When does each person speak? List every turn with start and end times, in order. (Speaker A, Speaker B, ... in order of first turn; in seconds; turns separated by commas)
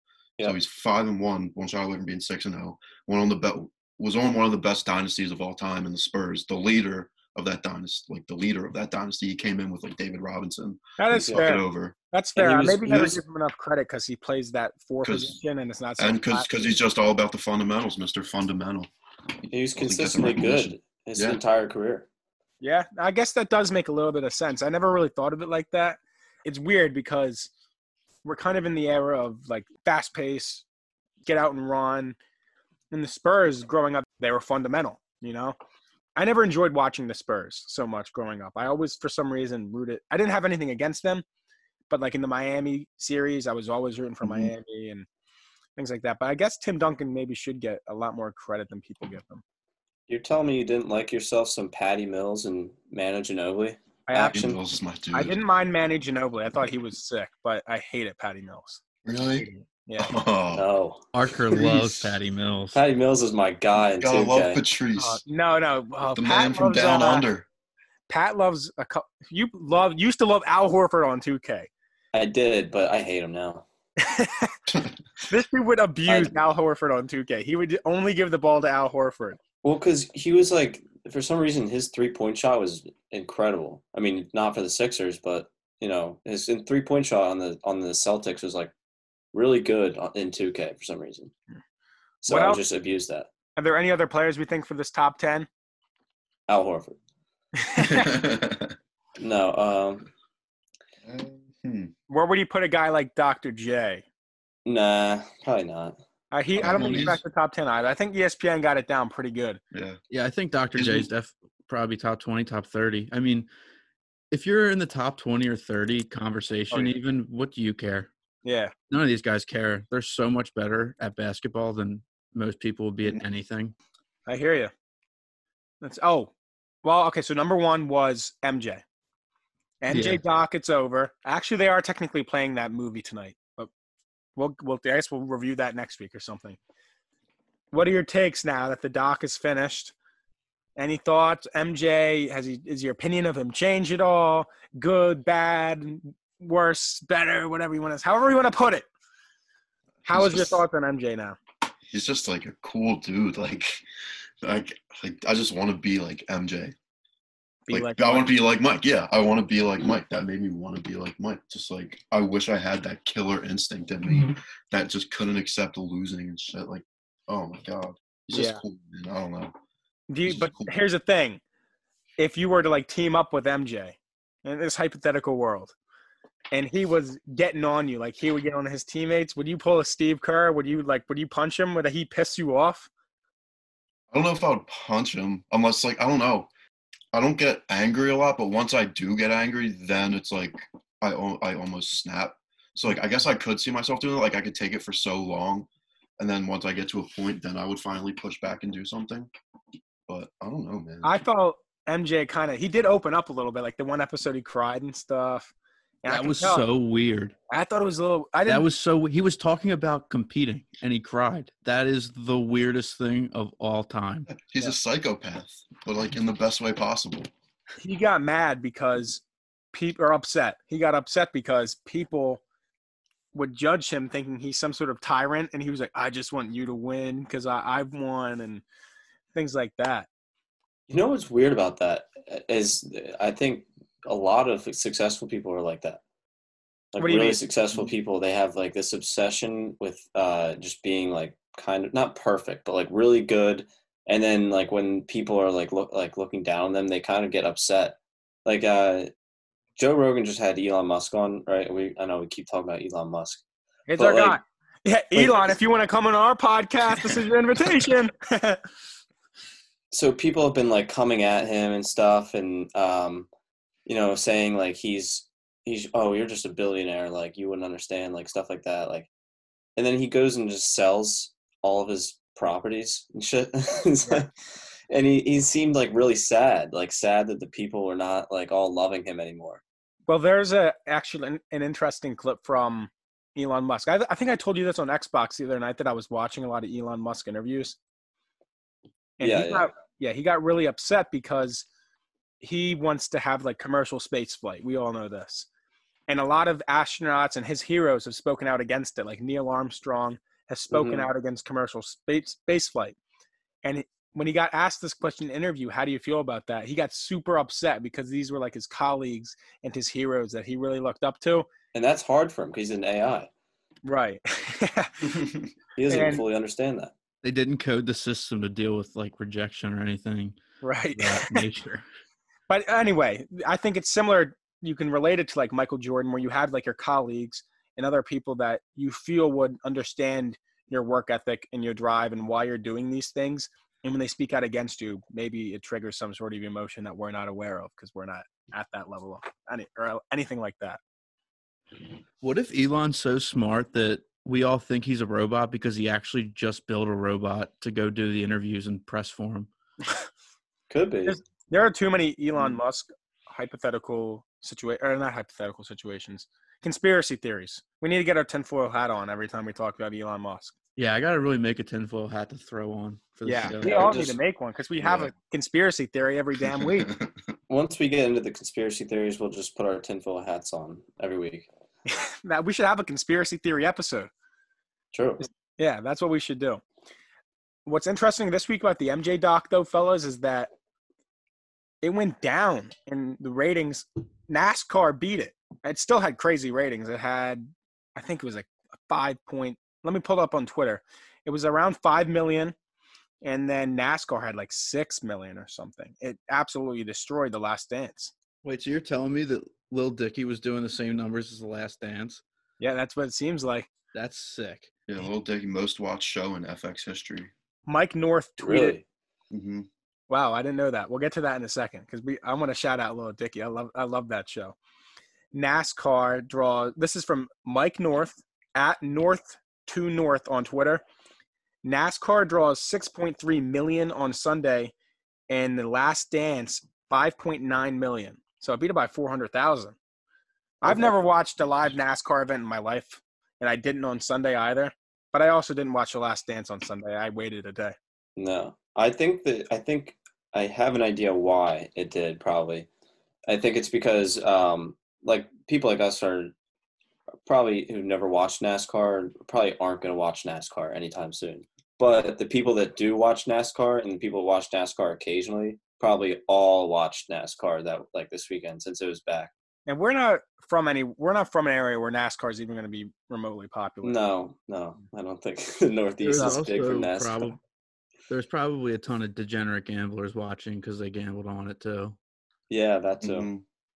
Speaker A: 0.4-11.9, Speaker B: 11.0-16.5, Speaker C: 12.4-13.1, Speaker A: 12.9-13.2, Speaker A: 15.0-15.4, Speaker A: 16.0-18.9, Speaker C: 19.5-22.1, Speaker A: 19.7-21.4, Speaker B: 22.6-27.5, Speaker B: 28.2-30.6, Speaker B: 31.2-32.2, Speaker B: 32.9-35.6, Speaker B: 36.2-41.2, Speaker B: 41.9-45.1, Speaker A: 44.2-44.5, Speaker B: 45.8-49.4, Speaker C: 50.1-54.6, Speaker B: 54.1-54.4, Speaker A: 54.3-55.4, Speaker B: 55.1-58.8, Speaker A: 59.0-59.5, Speaker B: 59.4-60.1, Speaker A: 60.0-60.7, Speaker C: 60.5-61.0, Speaker D: 61.1-62.8, Speaker A: 61.4-62.2, Speaker C: 62.7-64.6, Speaker A: 64.0-65.2, Speaker B: 65.0-67.3, Speaker A: 66.2-67.5, Speaker B: 68.1-71.7, Speaker C: 72.1-73.7, Speaker B: 74.0-74.5, Speaker B: 75.3-79.4, Speaker C: 76.1-76.3, Speaker C: 79.6-88.7, Speaker C: 89.3-91.3, Speaker C: 92.2-93.3, Speaker B: 92.3-92.6, Speaker B: 93.6-95.5, Speaker C: 96.5-97.0, Speaker B: 97.6-98.1, Speaker A: 97.8-98.7, Speaker C: 99.2-100.1, Speaker A: 101.0-101.9, Speaker B: 102.1-104.0, Speaker C: 104.7-106.0, Speaker B: 106.3-109.6, Speaker A: 106.6-107.2, Speaker D: 106.7-107.2, Speaker A: 109.7-110.0, Speaker D: 110.1-113.5, Speaker A: 110.8-111.1, Speaker D: 114.3-118.1, Speaker B: 118.5-118.7, Speaker D: 118.9-123.7, Speaker B: 124.3-124.7, Speaker B: 125.8-126.3, Speaker B: 126.8-128.8, Speaker B: 129.8-133.7, Speaker D: 129.9-130.2, Speaker B: 134.4-136.6, Speaker B: 137.7-139.9, Speaker B: 140.8-148.9, Speaker A: 150.1-150.6, Speaker B: 150.1-151.4, Speaker A: 151.9-153.8, Speaker A: 154.4-156.8, Speaker B: 157.7-158.3, Speaker A: 157.7-169.5, Speaker B: 168.3-168.6, Speaker B: 170.1-171.4, Speaker A: 170.2-170.7, Speaker B: 172.2-175.7, Speaker B: 176.5-182.9, Speaker A: 184.1-186.5, Speaker A: 187.1-199.3, Speaker A: 200.1-201.2, Speaker B: 201.0-205.5, Speaker B: 206.0-206.6, Speaker D: 206.1-207.3, Speaker B: 207.5-208.7, Speaker D: 208.5-214.3, Speaker A: 214.3-217.3, Speaker B: 217.8-222.4, Speaker B: 223.3-228.6, Speaker B: 229.3-230.1, Speaker C: 230.9-236.0, Speaker C: 236.9-249.1, Speaker B: 237.0-237.4, Speaker C: 249.8-253.4, Speaker B: 253.9-258.6, Speaker C: 254.0-254.4, Speaker C: 259.9-263.3, Speaker C: 263.9-269.1, Speaker C: 269.8-274.3, Speaker C: 274.9-279.6, Speaker B: 280.1-287.8, Speaker B: 289.2-291.7, Speaker C: 289.2-289.7, Speaker B: 292.4-295.5, Speaker B: 296.1-303.0, Speaker C: 300.7-301.1, Speaker B: 303.6-311.5, Speaker C: 311.7-313.3, Speaker B: 313.9-315.2, Speaker C: 315.8-316.9, Speaker B: 315.9-316.2, Speaker D: 317.2-320.4, Speaker B: 320.6-321.4, Speaker D: 320.9-321.9, Speaker B: 322.5-340.8, Speaker D: 342.2-349.5, Speaker C: 350.7-351.2, Speaker B: 351.1-360.5, Speaker D: 360.8-364.1, Speaker B: 363.2-366.9, Speaker C: 363.6-364.2, Speaker C: 367.5-371.5, Speaker B: 371.9-374.1, Speaker C: 374.9-375.2, Speaker B: 375.2-376.6, Speaker B: 377.7-380.5, Speaker B: 381.8-392.6, Speaker B: 393.2-398.1, Speaker D: 398.4-402.2, Speaker B: 402.6-403.7, Speaker D: 403.9-404.7, Speaker A: 404.9-407.3, Speaker B: 407.7-408.8, Speaker C: 408.4-408.8, Speaker A: 409.3-409.7, Speaker B: 410.1-414.6, Speaker B: 415.3-420.8, Speaker B: 421.6-424.7, Speaker B: 425.3-429.8, Speaker B: 430.6-437.8, Speaker C: 430.6-430.9, Speaker C: 438.2-442.7, Speaker C: 443.3-446.3, Speaker C: 447.3-459.3, Speaker B: 459.7-464.0, Speaker C: 463.8-467.4, Speaker D: 466.0-467.4, Speaker D: 468.1-472.0, Speaker C: 472.5-473.3, Speaker A: 473.0-473.4